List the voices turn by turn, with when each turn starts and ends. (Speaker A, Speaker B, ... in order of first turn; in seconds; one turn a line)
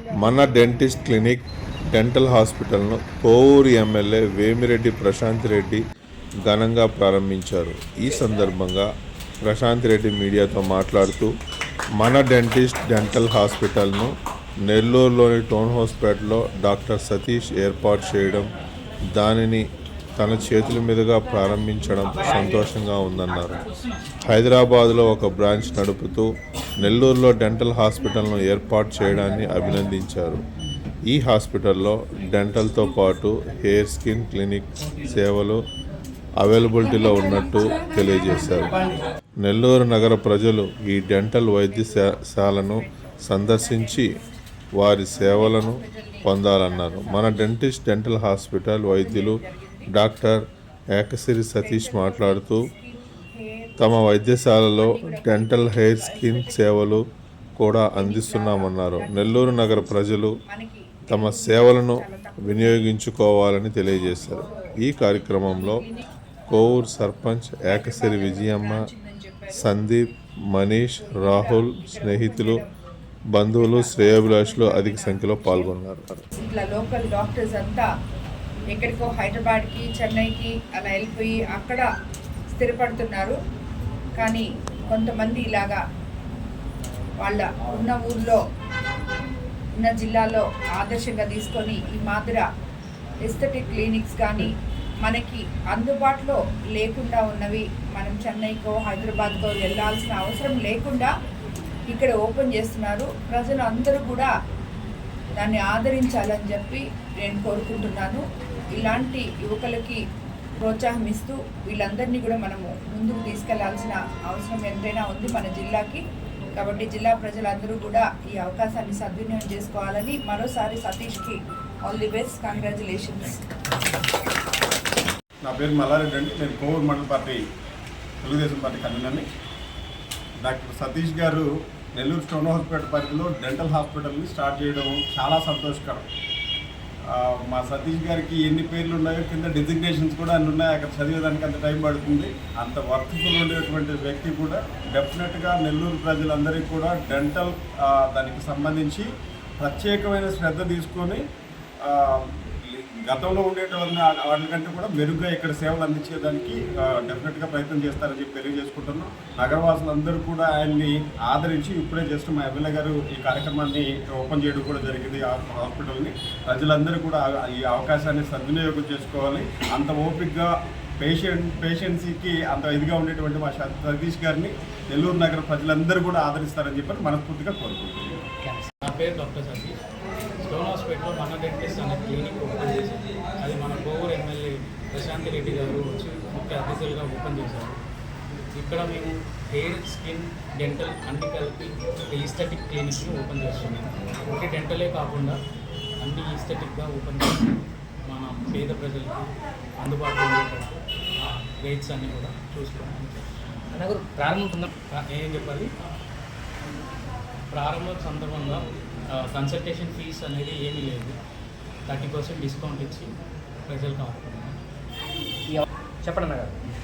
Speaker A: 0.2-5.8
Speaker A: 6.4-8.9
Speaker A: 9.4-11.3
Speaker A: 12.0-14.1
Speaker A: 14.7-18.5
Speaker A: 19.1-23.6
Speaker A: 24.2-26.3
Speaker A: 26.8-30.4
Speaker A: 31.1-35.6
Speaker A: 36.4-38.7
Speaker A: 39.4-44.2
Speaker B: 41.7-44.3
Speaker A: 44.8-49.4
Speaker B: 45.1-47.4
Speaker B: 48.9-49.9
Speaker A: 49.9-50.5
Speaker A: 51.0-52.7
Speaker B: 51.6-57.0
Speaker A: 53.8-57.0
Speaker A: 57.6-60.4
Speaker B: 57.9-59.9
Speaker B: 60.5-62.9
Speaker A: 61.1-65.8
Speaker B: 64.3-64.7
Speaker A: 66.5-68.8
Speaker B: 67.7-69.7
Speaker A: 69.5-72.6
Speaker B: 70.9-72.7
Speaker A: 73.3-76.2
Speaker B: 73.5-75.7
Speaker B: 76.3-77.8
Speaker B: 78.7-81.8
Speaker B: 82.5-83.3
Speaker B: 84.2-85.8
Speaker B: 87.2-88.4
Speaker B: 89.8-92.4
Speaker B: 93.2-94.5
Speaker B: 95.0-101.1
Speaker B: 101.9-104.3
Speaker B: 105.4-108.2
Speaker B: 108.7-110.0
Speaker B: 110.6-116.0
Speaker B: 116.5-123.4
Speaker C: 125.4-127.4
Speaker C: 128.2-129.2
Speaker C: 130.4-136.1
Speaker C: 137.1-149.1
Speaker C: 149.6-151.2
Speaker C: 151.8-170.5
Speaker C: 171.0-178.2
Speaker D: 178.4-178.7
Speaker E: 178.8-179.8
Speaker E: 180.4-187.8
Speaker E: 188.5-195.4
Speaker E: 196.0-203.5
Speaker D: 203.7-204.7
Speaker E: 204.9-205.7
Speaker E: 207.5-211.2
Speaker E: 211.9-213.1
Speaker E: 213.7-214.6
Speaker D: 215.5-216.7